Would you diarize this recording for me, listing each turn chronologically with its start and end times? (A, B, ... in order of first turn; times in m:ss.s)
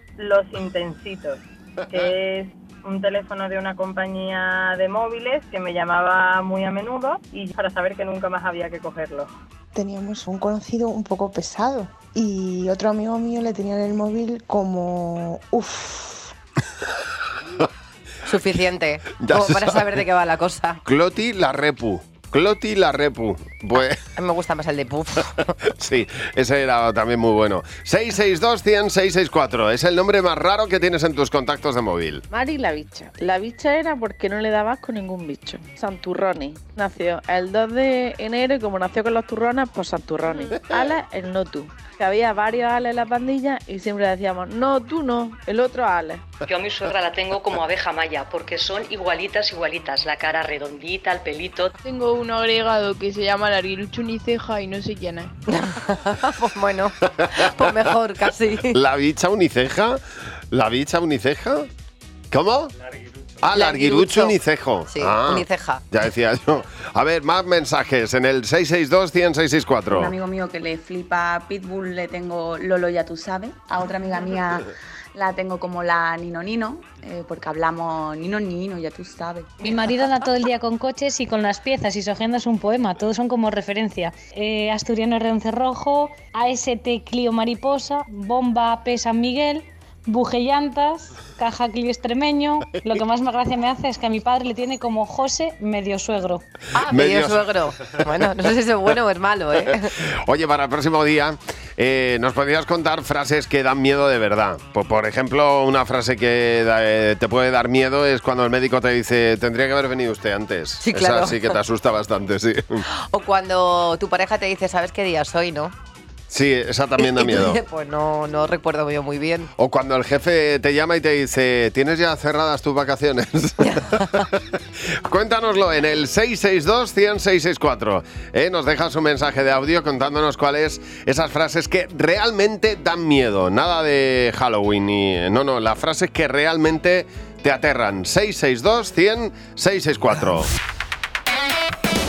0:00.2-0:01.4 A
0:01.9-0:09.3 A
0:09.7-0:16.3 B
0:18.2-0:20.8 C
0:19.2-0:20.0 D
0:20.8-0:24.0 D
0:23.8-0:25.5 C
0:25.6-0:32.2 D
0:32.3-0:46.2 E
0:46.5-0:51.8 F
0:51.8-0:55.3 G
0:55.7-0:58.8 C
0:58.7-1:00.0 D
1:00.5-1:01.7 D
1:02.3-1:02.7 D
1:03.4-1:10.1 D
1:03.5-1:04.4 C
1:04.9-1:05.8 C
1:09.9-1:19.7 H
1:19.6-1:36.4 I
1:36.7-1:39.9 C
1:36.9-1:38.3 D
1:39.6-1:52.8 D
1:50.8-1:51.6 C
1:53.1-1:55.7 C
1:56.3-1:57.6 D
1:57.0-1:59.5 C
1:59.6-2:04.4 D
2:03.6-2:04.2 C
2:05.0-2:20.5 D